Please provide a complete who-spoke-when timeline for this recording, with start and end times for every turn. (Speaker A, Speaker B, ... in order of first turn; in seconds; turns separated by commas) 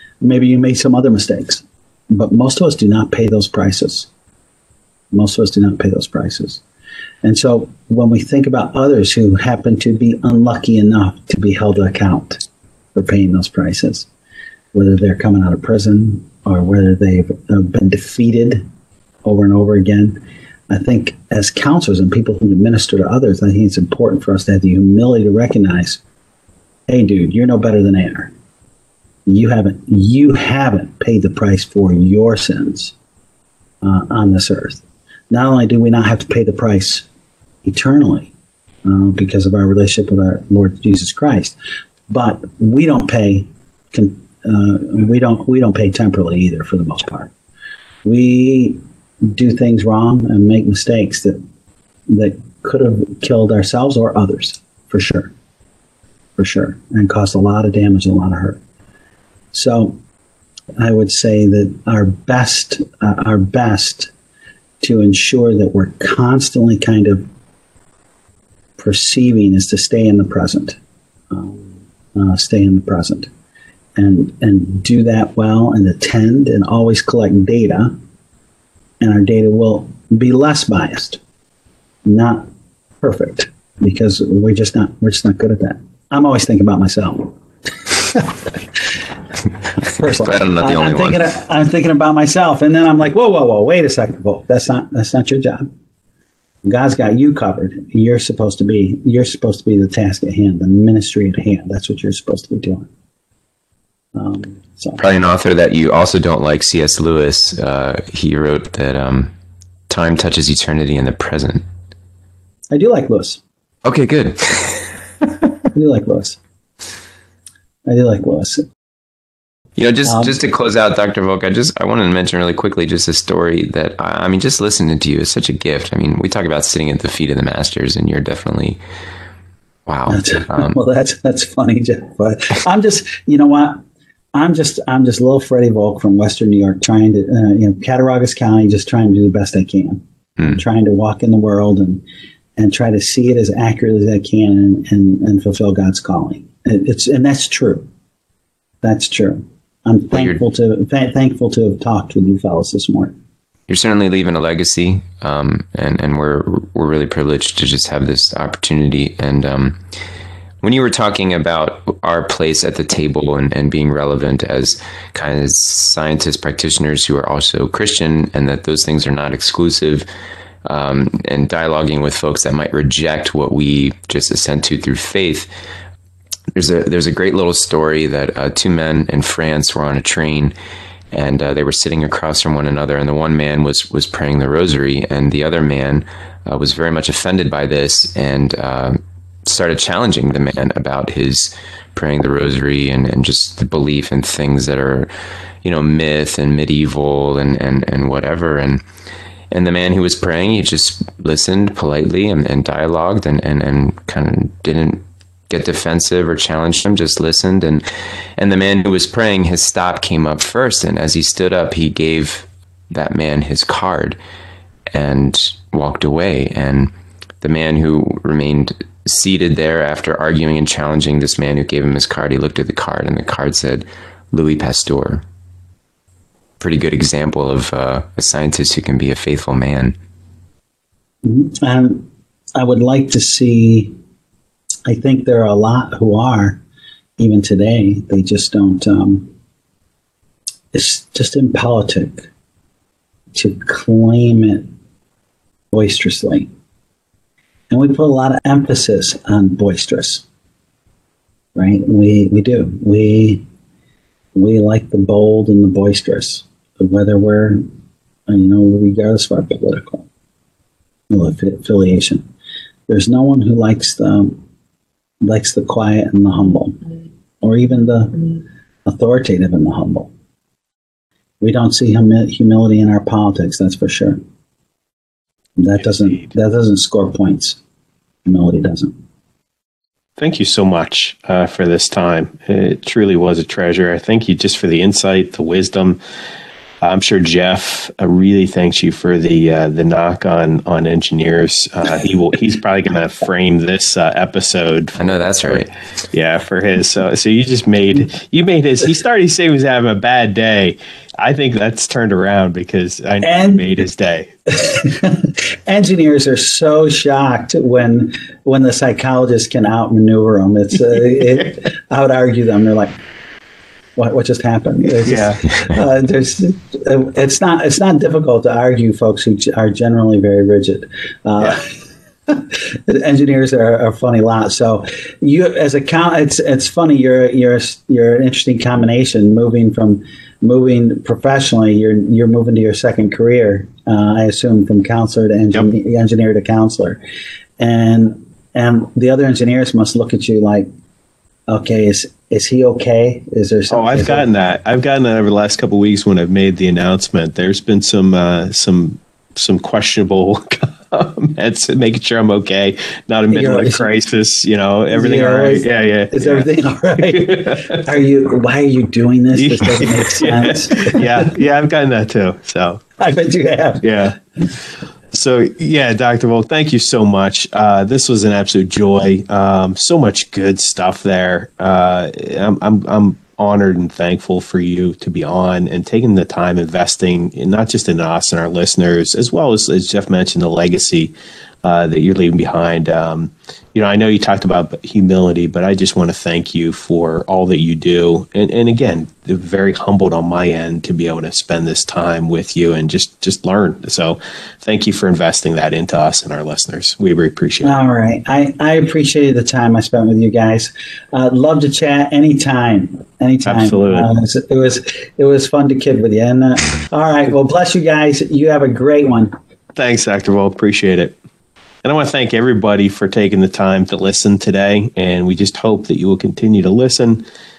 Speaker A: 0.2-4.1, Speaker A: 5.1-6.6, Speaker A: 7.2-12.4, Speaker A: 12.9-14.1, Speaker A: 14.7-18.7, Speaker A: 19.2-26.0, Speaker A: 26.9-28.3, Speaker A: 29.3-33.0, Speaker A: 33.8-37.1, Speaker A: 37.6-38.3, Speaker A: 38.9-41.6, Speaker A: 42.1-47.3, Speaker A: 48.0-51.4, Speaker A: 52.1-55.3, Speaker A: 56.4-58.6, Speaker A: 59.5-60.0, Speaker A: 60.8-64.1, Speaker A: 64.8-67.2, Speaker A: 68.8-70.8, Speaker A: 71.3-73.3, Speaker A: 74.0-77.9, Speaker A: 79.0-81.2, Speaker A: 82.0-82.5, Speaker A: 83.0-88.9, Speaker A: 89.8-95.7, Speaker B: 90.1-91.2, Speaker A: 96.6-102.9, Speaker A: 104.1-105.0, Speaker B: 105.0-109.3, Speaker B: 109.9-111.6, Speaker A: 112.7-113.4, Speaker B: 113.8-115.5, Speaker A: 115.8-116.4, Speaker A: 117.9-118.6, Speaker B: 119.8-128.8, Speaker A: 120.1-120.4, Speaker B: 129.9-130.7, Speaker A: 130.1-133.8, Speaker A: 134.3-142.0, Speaker A: 142.6-147.9, Speaker A: 148.8-153.2, Speaker B: 153.7-159.8, Speaker B: 160.6-170.1, Speaker B: 170.7-175.5, Speaker B: 176.6-180.5, Speaker B: 181.1-195.1, Speaker B: 195.6-198.8, Speaker B: 199.5-207.8, Speaker B: 208.4-214.2, Speaker B: 214.9-216.9, Speaker B: 217.4-225.2, Speaker B: 226.6-230.0, Speaker A: 231.2-233.9, Speaker A: 234.9-236.6, Speaker A: 237.2-239.3, Speaker A: 240.7-242.3, Speaker A: 243.3-244.7, Speaker A: 245.7-246.5, Speaker A: 247.7-250.2, Speaker A: 251.6-253.4, Speaker A: 254.3-257.6, Speaker A: 258.3-260.1, Speaker A: 261.1-262.2, Speaker A: 262.9-264.4, Speaker A: 265.2-266.8, Speaker A: 267.4-270.1, Speaker A: 271.4-274.2, Speaker A: 275.6-277.6, Speaker A: 278.2-278.9, Speaker C: 280.2-286.0, Speaker C: 286.8-304.3, Speaker B: 295.0-295.7, Speaker A: 303.2-303.7, Speaker A: 304.5-312.9, Speaker A: 314.0-321.7, Speaker C: 315.0-315.5, Speaker A: 322.3-337.0, Speaker A: 337.6-340.7, Speaker A: 341.5-344.3, Speaker C: 343.7-357.8, Speaker A: 353.3-353.9, Speaker A: 354.9-361.2, Speaker C: 359.4-362.8, Speaker A: 363.0-363.9, Speaker C: 363.8-364.2, Speaker C: 365.1-397.8, Speaker A: 397.6-409.3, Speaker C: 403.4-404.1, Speaker C: 409.8-411.2, Speaker C: 411.8-417.2